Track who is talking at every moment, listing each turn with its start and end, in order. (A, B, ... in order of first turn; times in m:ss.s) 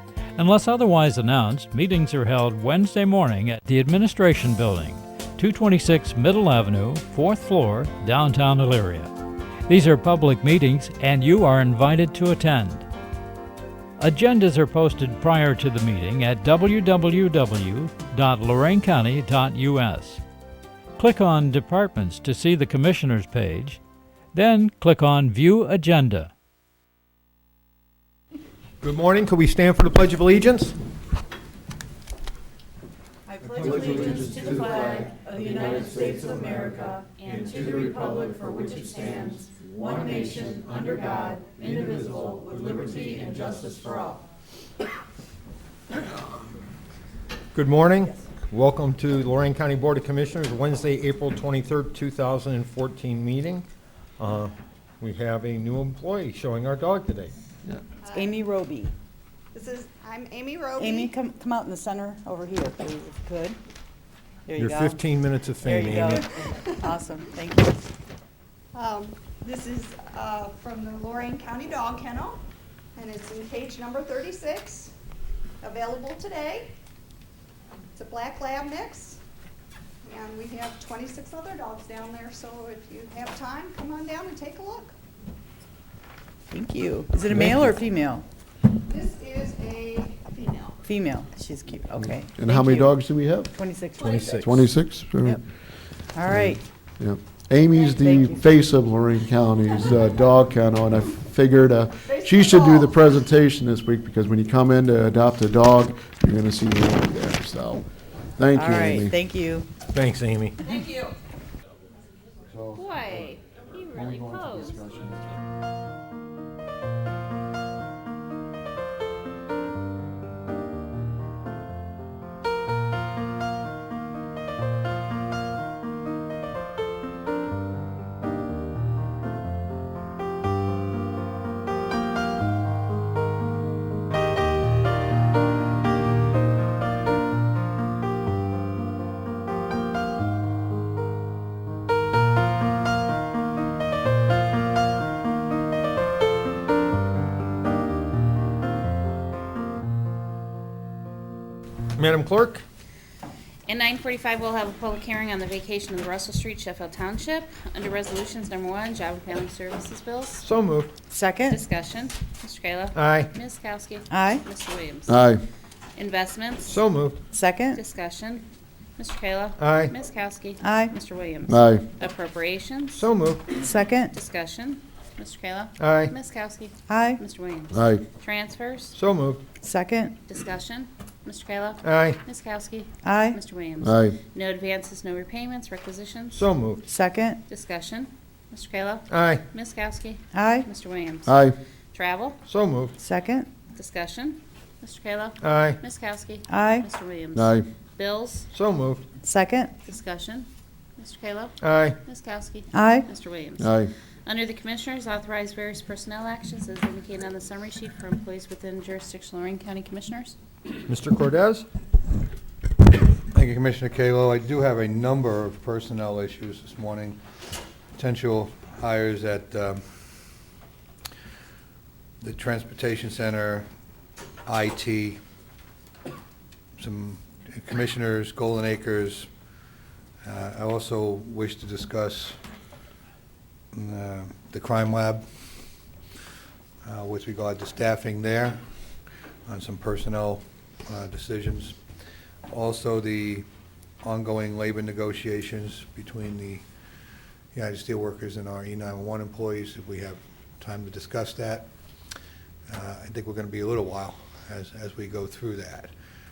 0:00.4-0:09.1 A
0:09.7-0:12.8 A
0:14.0-0:20.2 A
0:21.0-0:23.8 A
0:24.3-0:26.3 A
0:28.8-0:30.7 B
0:33.3-0:44.2 C
0:37.6-0:38.0 B
0:39.0-0:39.3 B
0:47.5-0:53.6 B
0:54.2-0:57.3 B
0:58.0-0:58.5 D
0:58.1-0:58.9 C
0:59.5-1:01.2 D
1:00.8-1:03.6 C
1:04.5-1:05.0 C
1:04.5-1:06.3 B
1:05.6-1:07.8 C
1:06.4-1:07.0 D
1:08.7-1:12.4 D
1:12.9-1:14.9 D
1:15.6-1:16.7 D
1:17.9-1:19.2 D
1:20.0-1:24.9 D
1:26.5-1:28.2 C
1:28.8-1:30.8 D
1:30.8-1:33.0 C
1:32.0-1:33.5 E
1:33.5-1:34.2 C
1:34.0-1:34.5 D
1:34.0-1:34.7 B
1:34.3-1:35.4 E
1:36.1-1:36.6 C
1:36.2-1:47.9 E
1:37.7-1:38.6 D
1:38.0-1:38.6 C
1:42.1-1:43.1 D
1:48.4-1:49.2 E
1:48.5-1:49.7 C
1:49.9-1:50.6 B
1:52.5-1:55.4 E
1:52.8-1:53.3 F
2:32.0-2:32.6 B
2:33.6-2:40.4 F
2:40.4-2:40.9 B
2:41.1-2:41.6 C
2:41.5-2:45.3 F
2:42.9-2:43.3 B
2:44.1-2:44.4 C
2:45.1-2:45.4 E
2:46.0-2:46.8 F
2:46.6-2:47.2 B
2:47.3-2:47.8 C
2:47.7-2:48.4 F
2:49.0-2:53.0 F
2:49.6-2:49.9 B
2:50.6-2:51.0 C
2:51.5-2:51.8 E
2:52.9-2:53.5 B
2:53.6-2:54.1 C
2:54.1-2:59.0 F
2:55.8-2:56.1 B
2:56.9-2:57.2 C
2:57.7-2:58.0 E
2:58.9-2:59.4 B
2:59.6-3:00.1 C
3:00.2-3:06.4 F
3:01.8-3:02.2 B
3:03.0-3:03.4 C
3:03.8-3:04.2 E
3:06.3-3:06.8 B
3:06.9-3:07.4 C
3:07.5-3:12.4 F
3:09.1-3:09.4 B
3:10.3-3:10.7 C
3:11.3-3:11.6 E
3:12.5-3:12.9 B
3:13.0-3:13.5 C
3:13.7-3:18.5 F
3:15.4-3:15.8 B
3:16.5-3:16.9 C
3:17.3-3:17.7 E
3:18.5-3:19.0 B
3:19.2-3:19.7 C
3:19.8-3:30.4 F
3:21.6-3:22.0 B
3:22.7-3:23.1 C
3:23.6-3:23.9 E
3:30.9-3:31.6 B
3:33.3-3:37.2 G
3:38.0-3:39.8 G
3:42.2-3:43.6 G
3:44.4-3:45.2 G
3:46.8-3:49.3 G
3:50.2-3:52.4 G
3:53.7-3:55.2 G
3:56.8-3:58.6 G
3:59.5-4:01.8 G
4:02.5-4:03.4 G
4:04.0-4:06.6 G
4:07.5-4:11.7 G
4:12.7-4:15.9 G